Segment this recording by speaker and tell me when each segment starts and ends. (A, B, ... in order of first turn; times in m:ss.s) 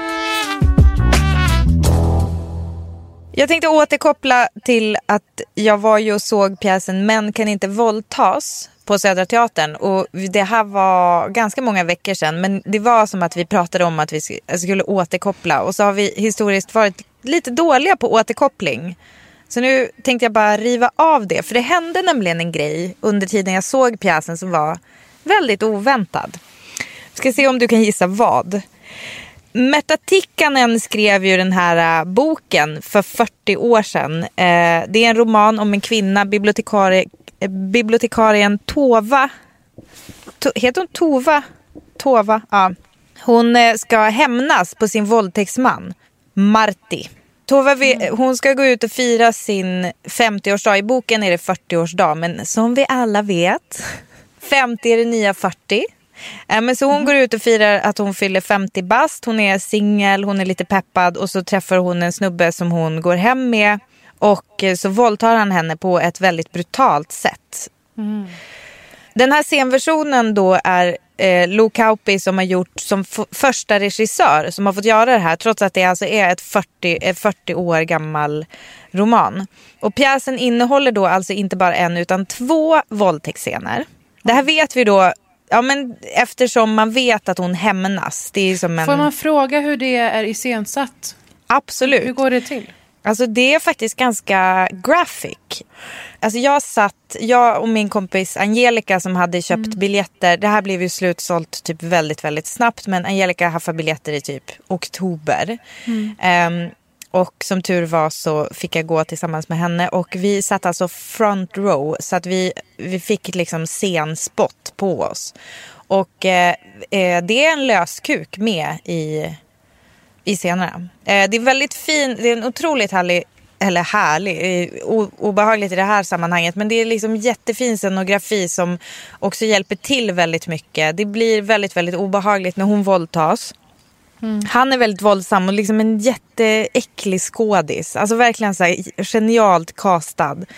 0:03.3-0:19.0 A
0:19.5-0:26.4 A
0:27.1-0:28.6 A
0:29.5-0:39.3 A
0:40.4-0:41.4 A
0:42.0-0:55.8 A
0:47.8-0:48.1 B
0:56.5-1:07.7 A
1:08.0-1:08.4 B
1:09.1-1:29.1 A
1:28.8-1:31.1 B
1:31.5-1:32.1 A
1:31.8-1:32.7 B
1:33.0-1:35.6 A
1:36.2-1:45.6 A
1:45.9-1:46.2 B
1:46.2-1:55.3 A
1:55.9-1:59.4 A
2:00.2-2:13.5 A
2:14.2-2:14.5 B
2:14.4-2:20.5 A